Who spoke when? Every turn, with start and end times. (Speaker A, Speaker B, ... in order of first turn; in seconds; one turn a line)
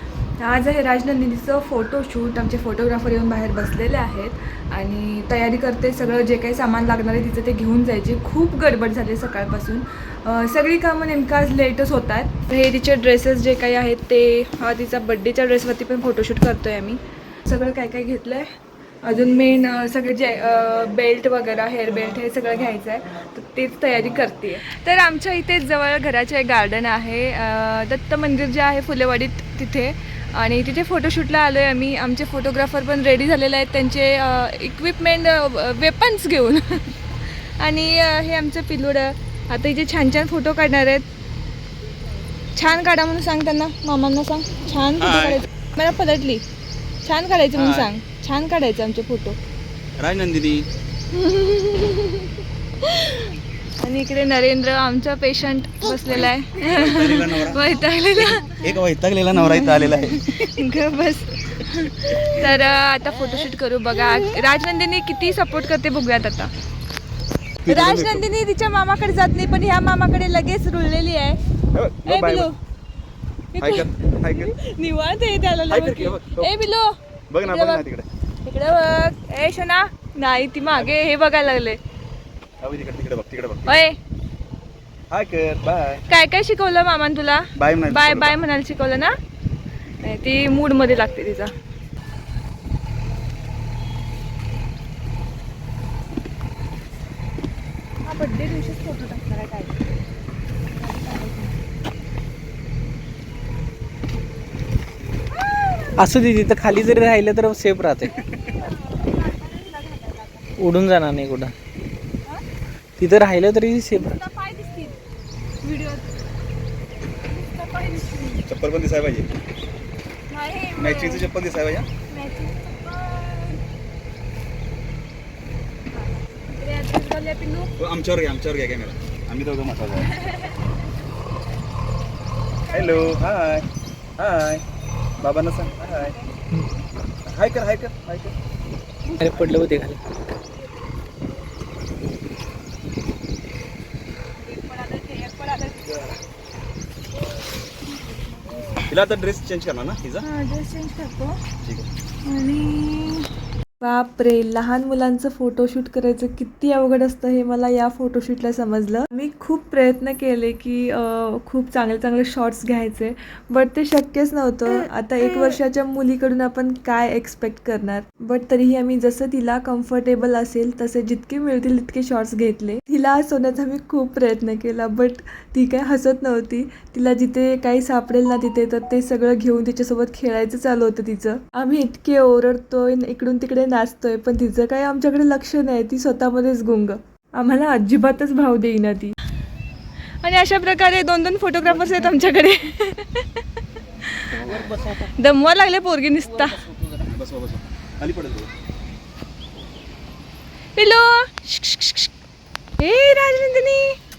Speaker A: 0.4-18.5
Speaker A: 19.0-41.1
Speaker A: 42.5-46.4
Speaker B: 45.0-45.4
Speaker A: 47.0-49.4
Speaker B: 47.6-47.9
Speaker B: 50.0-50.7
Speaker A: 51.1-58.8
Speaker B: 56.7-57.6
Speaker B: 58.6-60.2
Speaker A: 59.4-66.5
Speaker B: 67.7-68.3
Speaker A: 67.7-71.4
Speaker B: 71.7-72.5
Speaker A: 72.1-72.6
Speaker A: 73.5-77.8
Speaker B: 73.6-74.5
Speaker B: 75.7-76.5
Speaker B: 77.3-78.0
Speaker A: 78.5-81.8
Speaker B: 80.7-81.0
Speaker B: 82.6-83.8
Speaker A: 83.7-84.0
Speaker B: 85.1-86.0
Speaker A: 86.1-89.1
Speaker B: 87.5-88.4
Speaker A: 90.0-91.5
Speaker A: 98.0-99.9
Speaker A: 100.8-101.6
Speaker C: 106.0-108.2
Speaker A: 108.4-110.4
Speaker C: 110.6-111.5
Speaker C: 113.0-114.2
Speaker A: 113.9-115.0
Speaker A: 115.6-116.1
Speaker A: 117.3-118.4
Speaker B: 118.5-119.3
Speaker A: 120.3-121.3
Speaker B: 120.8-121.9
Speaker A: 122.0-123.6
Speaker A: 125.9-127.7
Speaker B: 127.8-130.1
Speaker A: 130.0-130.6
Speaker A: 132.7-133.1
Speaker B: 132.7-133.7
Speaker B: 134.2-134.6
Speaker B: 135.2-136.1
Speaker B: 137.3-138.3
Speaker C: 139.2-140.0
Speaker A: 144.4-146.1
Speaker B: 148.9-150.2
Speaker A: 150.2-151.4
Speaker A: 152.2-153.3
Speaker A: 153.8-189.2
Speaker A: 190.2-193.4
Speaker A: 194.0-196.6
Speaker C: 196.4-197.0
Speaker B: 197.1-198.5
Speaker A: 200.8-202.1
Speaker A: 202.8-204.0